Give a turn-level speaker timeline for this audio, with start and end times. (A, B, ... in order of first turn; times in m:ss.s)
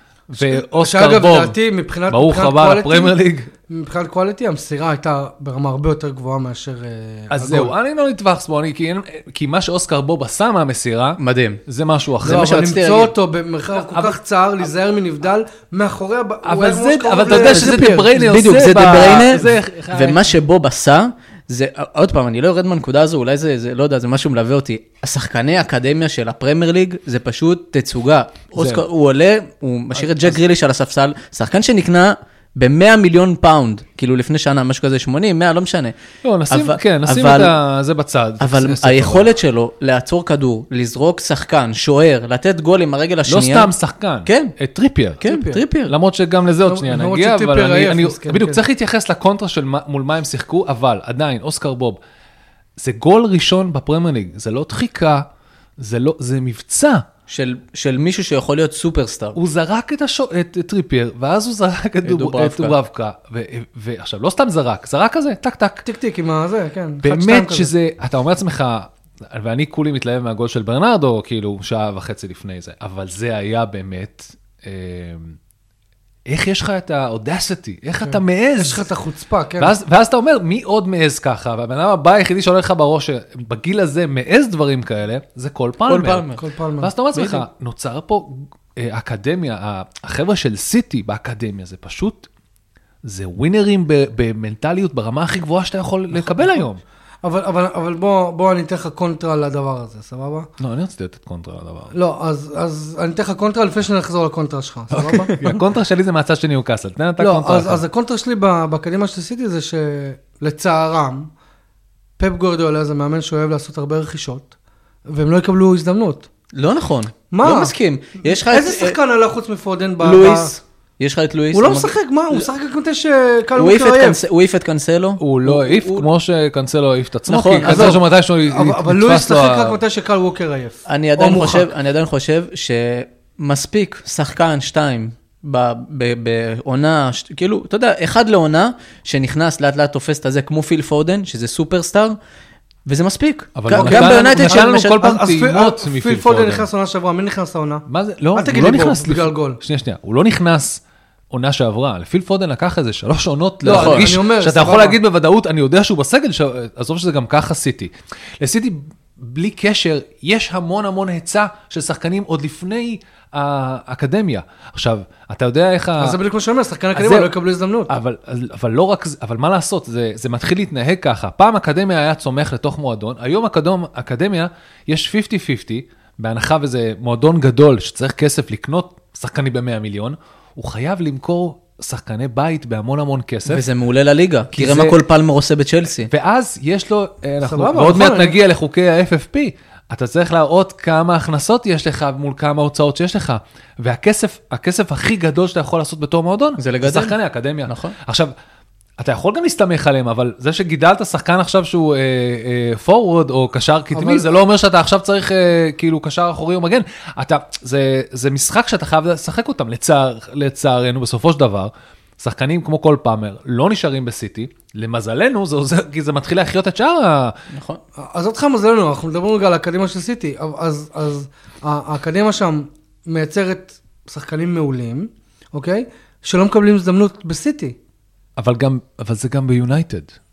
0:00.3-0:01.6 A
0:00.4-0:03.2 B
0:02.1-0:03.5 A
0:03.7-0:07.7 B
0:07.3-0:12.6 A
0:11.2-0:11.6 C
0:12.2-0:13.1 C
0:12.2-0:18.2 B
0:13.8-0:14.2 A
0:16.4-0:20.3 A
0:17.3-0:36.0 C
0:28.6-0:28.8 A
0:30.0-0:30.3 A
0:36.2-0:39.3 A
0:36.5-0:37.5 C
0:38.4-0:43.7 C
0:43.3-0:45.2 A
0:44.2-0:44.5 C
0:45.2-0:45.9 C
0:45.2-0:45.6 B
0:45.9-0:52.0 A
0:46.6-0:48.6 B
0:52.8-0:55.2 A
0:55.8-0:57.0 A
0:57.3-0:59.4 C
0:59.3-1:05.8 A
1:02.0-1:02.8 C
1:05.8-1:07.7 B
1:07.0-1:15.4 A
1:16.3-1:18.8 A
1:18.0-1:19.7 B
1:19.6-1:26.3 A
1:25.9-1:26.4 C
1:26.4-1:26.9 B
1:26.8-1:32.3 A
1:27.1-1:27.4 C
1:33.0-1:36.8 A
1:36.1-1:36.7 B
1:37.2-1:40.5 B
1:40.6-1:41.9 A
1:41.9-1:45.4 B
1:44.9-1:47.8 A
1:47.2-1:51.3 B
1:52.2-1:54.5 B
1:55.0-1:56.3 B
1:56.5-1:59.0 C
1:57.3-2:00.5 B
2:00.0-2:02.4 C
2:01.5-2:04.2 B
2:03.6-2:06.0 C
2:05.2-2:09.8 A
2:07.3-2:08.0 C
2:07.6-2:11.7 B
2:10.9-2:22.2 C
2:22.8-2:25.0 C
2:23.6-2:26.7 A
2:23.7-2:29.6 B
2:27.9-2:46.2 A
2:33.6-2:35.0 B
2:33.7-2:34.1 C
2:46.0-2:47.9 B
2:46.9-2:47.3 A
2:47.9-3:03.6 A
3:03.5-3:06.1 C
3:04.5-3:05.0 A
3:06.1-3:18.3 A
3:07.4-3:08.4 B
3:16.6-3:17.9 C
3:19.0-3:37.4 A
3:23.9-3:24.3 B
3:37.5-3:37.8 C
3:38.0-3:47.8 B
3:48.4-3:50.1 A